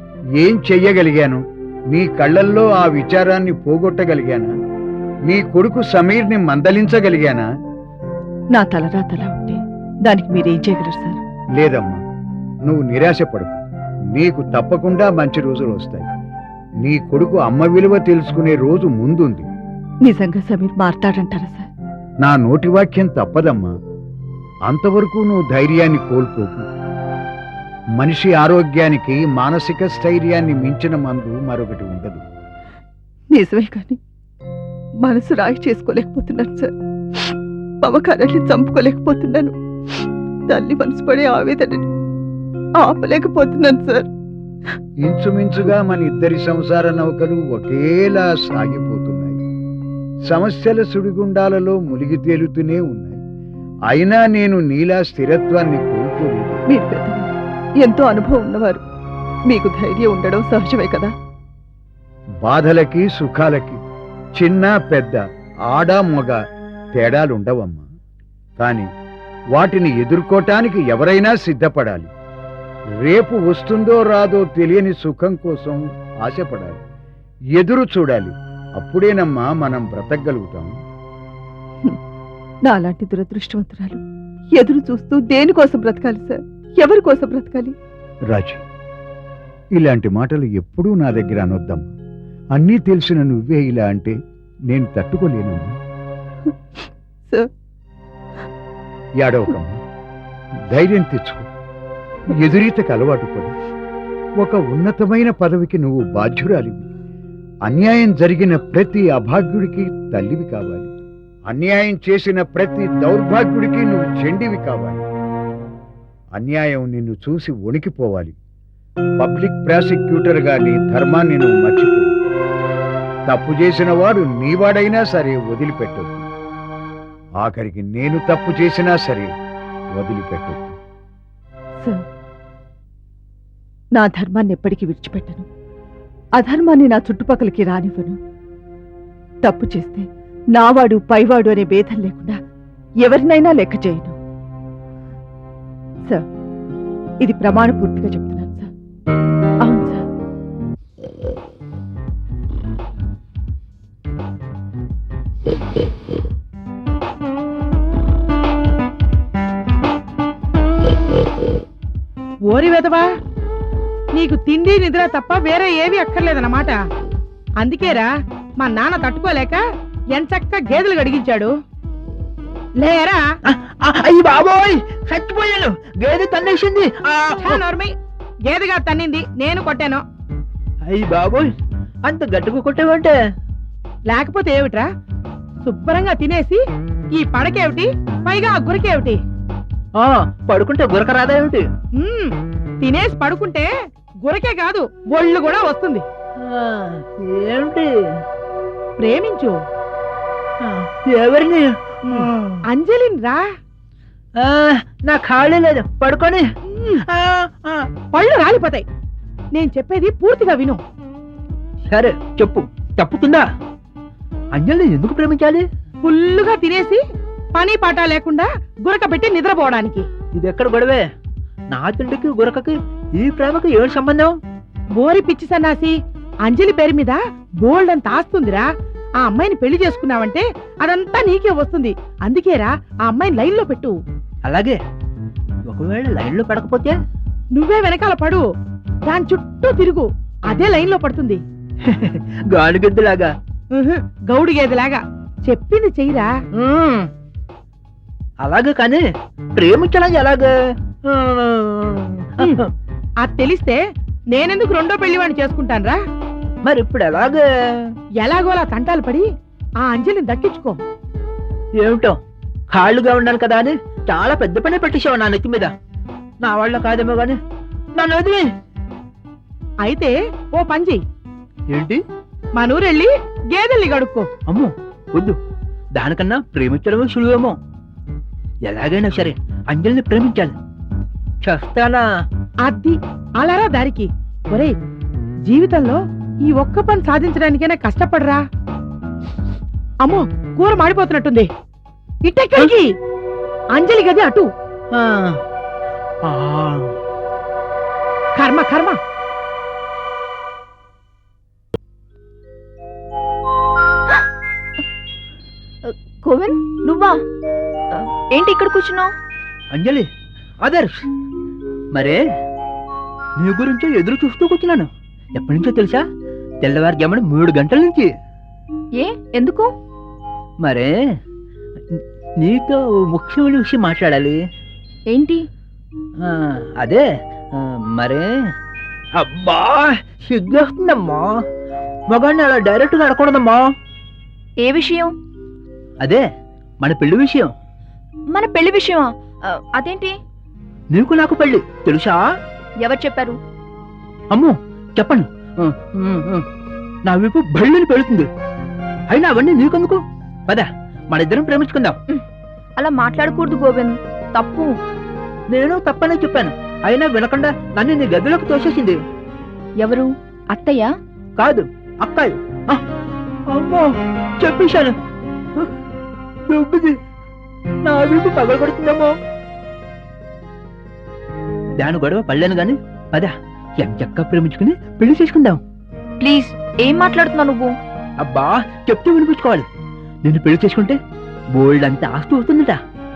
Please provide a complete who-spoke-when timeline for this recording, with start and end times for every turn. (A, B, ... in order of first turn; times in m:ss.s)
0:00.4-0:01.4 A
0:01.9-0:04.5 A
0:05.3-0:07.5 A
0:08.6-0:11.2 B
0:11.6-0:12.0 A
0:12.7-0:13.6 A
0:14.2-0:16.1 A
0:16.8-0:19.5 A
0:20.1-0:21.7 B
0:22.2-0:23.7 A
0:24.7-0:26.6 A
0:28.0-0:32.2 A
0:33.4-0:34.0 B
0:35.0-0:36.7 B
0:37.8-0:39.5 B
0:40.5-0:41.9 B
0:42.8-0:44.1 B
0:45.0-0:49.4 A
0:50.3-0:53.2 A
0:53.9-0:56.6 A
0:56.7-0:57.3 B
0:57.8-0:58.8 B
0:59.5-1:01.1 B
1:02.4-1:03.8 A
1:04.4-1:05.2 A
1:05.7-1:06.4 A
1:06.9-1:07.9 A
1:08.6-1:08.9 A
1:09.6-1:12.1 A
1:13.0-1:16.8 A
1:17.6-1:20.7 A
1:22.7-1:24.0 B
1:24.6-1:27.7 B
1:28.3-1:28.6 A
1:29.8-1:31.9 A
1:32.6-1:34.2 A
1:34.7-1:35.8 A
1:39.2-1:39.8 A
1:40.7-1:41.5 A
1:42.4-1:43.5 A
1:44.4-1:46.9 A
1:47.7-1:50.9 A
1:51.5-1:55.0 A
1:56.4-1:58.4 A
1:59.2-2:02.1 A
2:03.3-2:06.3 A
2:07.4-2:09.3 A
2:10.0-2:10.8 A
2:14.0-2:15.5 B
2:16.4-2:18.2 B
2:19.4-2:20.0 B
2:20.6-2:22.4 B
2:23.1-2:24.2 B
2:27.2-2:28.7 B
2:29.6-2:30.0 B
2:42.5-2:43.0 C
2:44.1-2:46.8 C
2:47.6-2:49.6 C
2:50.1-2:51.5 C
2:52.8-2:53.2 C
2:53.5-2:57.6 D
2:57.4-2:57.9 C
2:58.5-3:00.0 C
3:00.9-3:01.5 D
3:02.1-3:03.1 D
3:04.1-3:04.9 C
3:05.6-3:06.6 C
3:07.1-3:09.2 C
3:10.0-3:11.6 D
3:12.0-3:13.7 C
3:14.2-3:16.0 C
3:16.4-3:17.9 D
3:19.0-3:19.6 C
3:20.6-3:21.7 D
3:22.1-3:23.4 C
3:22.3-3:22.6 D
3:24.4-3:26.4 D
3:26.7-3:27.0 C
3:27.1-3:27.8 D
3:28.1-3:28.8 C
3:29.5-3:30.8 C
3:31.9-3:33.4 D
3:34.6-3:35.6 D
3:36.0-3:37.0 C
3:37.5-3:40.1 C
3:40.4-3:41.0 D
3:41.7-3:44.3 D
3:45.0-3:48.7 C
3:49.2-3:54.0 C
3:54.5-3:54.8 D
3:55.7-3:56.9 D
3:57.5-3:58.5 C
3:59.1-4:01.4 C
4:01.9-4:03.3 D
4:03.7-4:06.3 C
4:06.6-4:07.1 D
4:08.4-4:09.0 D
4:09.6-4:10.5 D
4:11.1-4:12.5 D
4:13.2-4:13.8 C
4:14.3-4:16.0 C
4:16.7-4:17.4 D
4:18.2-4:19.3 C
4:19.8-4:20.8 C
4:21.8-4:22.2 D
4:22.7-4:25.7 D
4:26.4-4:27.4 D
4:28.0-4:28.4 D
4:29.8-4:31.0 C
4:31.7-4:32.0 D
4:32.6-4:34.3 C
4:34.5-4:35.4 D
4:36.0-4:37.6 D
4:38.7-4:40.6 D
4:41.4-4:42.0 D
4:42.6-4:44.8 C
4:45.5-4:48.4 C
4:50.0-4:51.5 C
4:52.2-4:52.9 C
4:53.8-4:54.5 C
4:55.0-4:55.3 D
4:56.3-4:56.9 D
4:58.4-4:59.0 C
5:05.9-5:07.2 E
5:07.9-5:09.1 E
5:09.7-5:10.1 D
5:13.4-5:16.0 D
5:16.6-5:18.1 D
5:19.0-5:19.7 E
5:20.6-5:20.9 D
5:21.9-5:24.4 D
5:25.1-5:25.4 E
5:26.8-5:27.0 D
5:27.6-5:28.2 D
5:29.2-5:31.3 D
5:32.1-5:33.6 D
5:34.6-5:35.1 E
5:36.8-5:37.5 D
5:38.3-5:39.1 E
5:39.8-5:40.1 E
5:40.9-5:42.2 D
5:42.8-5:43.4 E
5:44.3-5:46.4 D
5:47.1-5:48.2 D
5:49.1-5:50.0 D
5:50.5-5:52.0 D
5:52.8-5:54.7 E
5:55.5-5:59.0 D
5:59.8-6:00.9 E
6:01.4-6:02.8 D
6:03.5-6:03.9 D
6:04.4-6:04.9 D
6:06.5-6:06.9 D
6:07.9-6:09.1 D
6:11.8-6:15.6 D
6:16.2-6:17.7 E
6:18.2-6:19.7 D
6:20.3-6:21.0 D
6:21.6-6:22.8 D